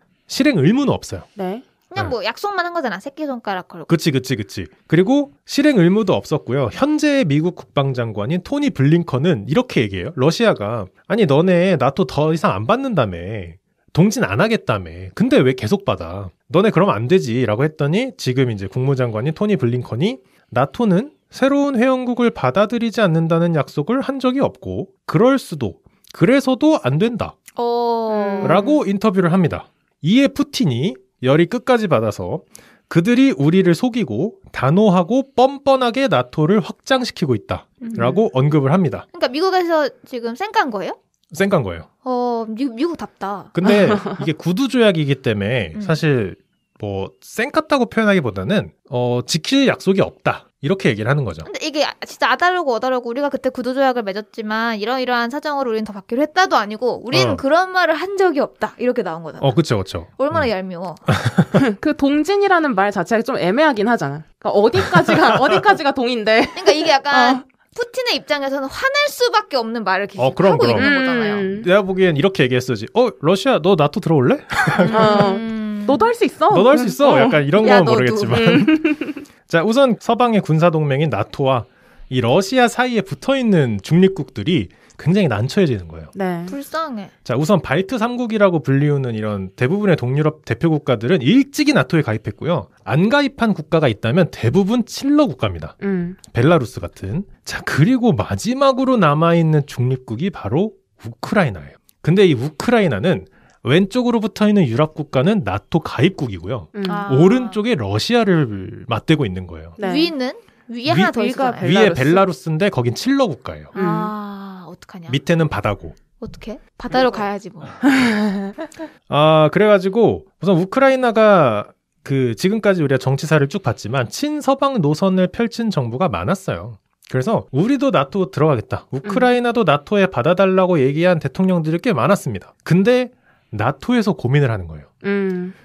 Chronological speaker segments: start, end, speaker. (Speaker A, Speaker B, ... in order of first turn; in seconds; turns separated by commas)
Speaker A: 0.3-1.3, Speaker B: 1.4-1.6, Speaker C: 1.9-3.9, Speaker A: 3.9-27.4, Speaker C: 27.6-28.8, Speaker B: 28.1-28.8, Speaker A: 28.4-39.1, Speaker C: 37.8-38.2, Speaker C: 39.1-41.0, Speaker A: 41.3-41.9, Speaker C: 42.0-43.5, Speaker A: 43.5-51.5, Speaker B: 43.7-44.1, Speaker C: 45.7-46.0, Speaker C: 51.4-59.6, Speaker A: 57.1-57.4, Speaker A: 59.4-60.5, Speaker C: 60.2-61.0, Speaker A: 61.1-61.6, Speaker B: 61.5-67.4, Speaker A: 65.0-65.6, Speaker C: 66.6-71.6, Speaker A: 70.2-70.9, Speaker B: 70.7-71.7, Speaker A: 71.6-75.3, Speaker C: 74.7-76.1, Speaker B: 74.9-77.4, Speaker A: 76.5-78.8, Speaker C: 77.6-78.4, Speaker B: 78.3-79.2, Speaker A: 79.5-86.1, Speaker B: 86.2-86.5, Speaker C: 86.5-87.1, Speaker A: 87.2-95.8, Speaker B: 95.8-96.2, Speaker A: 96.3-109.8, Speaker B: 106.7-107.1, Speaker C: 106.8-107.6, Speaker B: 109.8-110.1, Speaker C: 109.8-111.8, Speaker B: 110.9-112.3, Speaker A: 111.6-113.7, Speaker C: 113.7-115.2, Speaker B: 113.8-114.1, Speaker A: 115.1-116.0, Speaker C: 116.2-117.8, Speaker B: 116.9-117.2, Speaker B: 117.9-118.5, Speaker A: 119.1-134.9, Speaker B: 135.0-135.6